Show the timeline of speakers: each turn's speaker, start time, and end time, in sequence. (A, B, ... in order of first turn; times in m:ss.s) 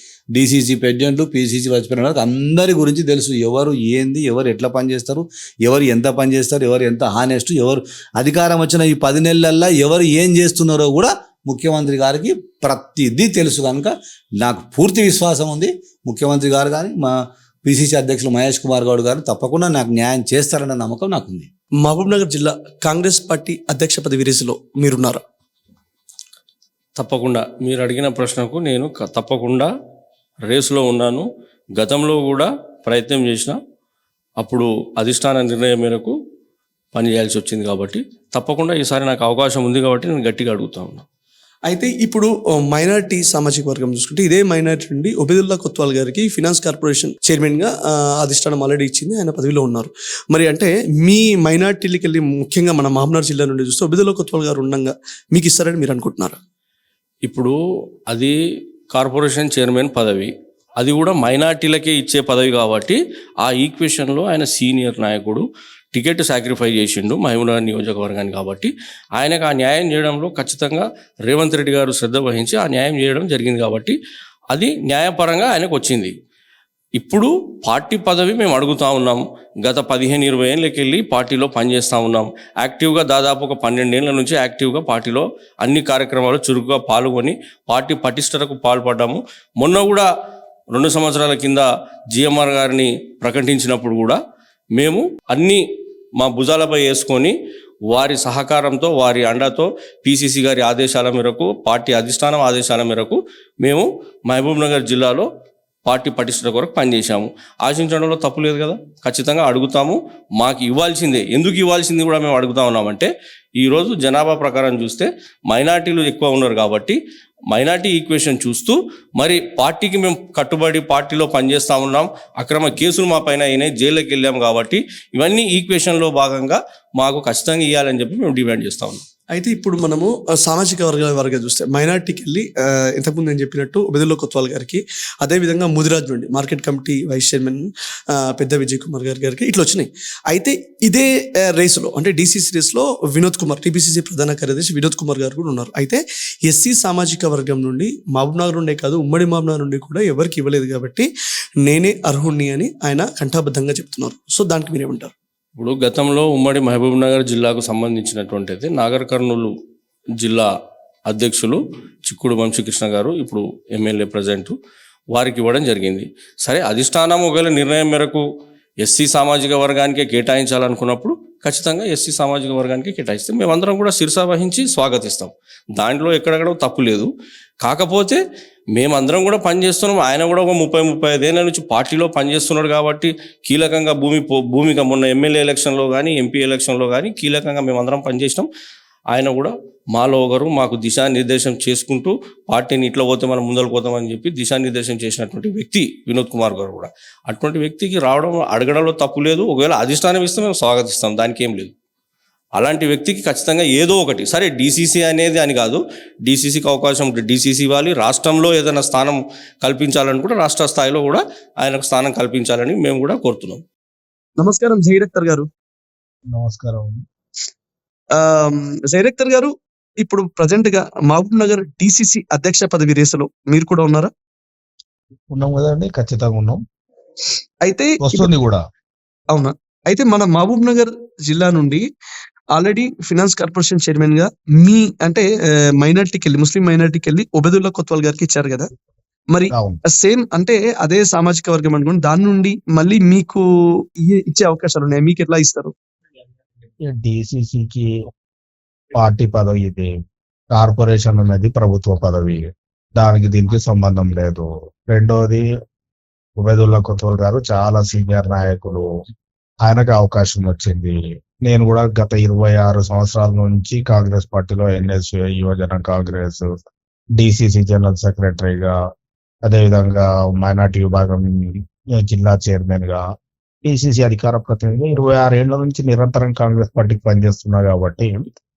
0:00.3-0:21.5 A
0:21.8-0:25.2 B
0:27.0-0:29.7 C
0:30.5-0:31.3 C
0:31.8-0:33.6 C
0:34.4-0:36.1 C
0:36.9-0:41.0 C
0:41.7-0:56.4 B
0:57.3-0:57.6 C
0:58.1-0:58.4 C
0:58.9-1:14.0 C
1:14.5-1:16.1 C
1:17.0-1:30.1 C
1:30.7-1:34.2 C
1:34.8-1:35.6 C
1:36.2-1:37.3 C
1:37.9-1:45.3 C
1:45.9-1:57.0 C
1:57.5-2:09.0 C
2:09.3-2:31.1 B
2:31.6-2:35.1 B
2:35.6-2:39.5 C
2:40.2-2:40.5 C
2:41.1-2:44.5 C
2:45.1-2:48.2 C
2:48.8-2:57.1 C
2:57.6-2:58.2 C
2:58.8-3:08.5 C
3:09.1-3:21.7 C
3:22.6-3:33.6 C
3:34.4-3:35.5 B
3:36.3-3:37.0 D
3:38.1-3:44.1 B
3:45.3-3:46.6 D
3:47.6-3:48.3 B
3:48.0-3:48.6 D
3:49.3-3:51.9 B
3:52.5-3:58.7 B
3:59.3-4:03.4 B
3:59.5-3:59.8 D
4:04.0-4:05.7 B
4:06.8-4:07.9 D
4:09.0-4:09.9 D
4:10.5-4:15.4 D
4:16.4-4:18.8 D
4:19.6-4:26.5 D
4:27.2-4:28.8 D
4:29.4-4:33.0 D
4:33.6-4:38.2 D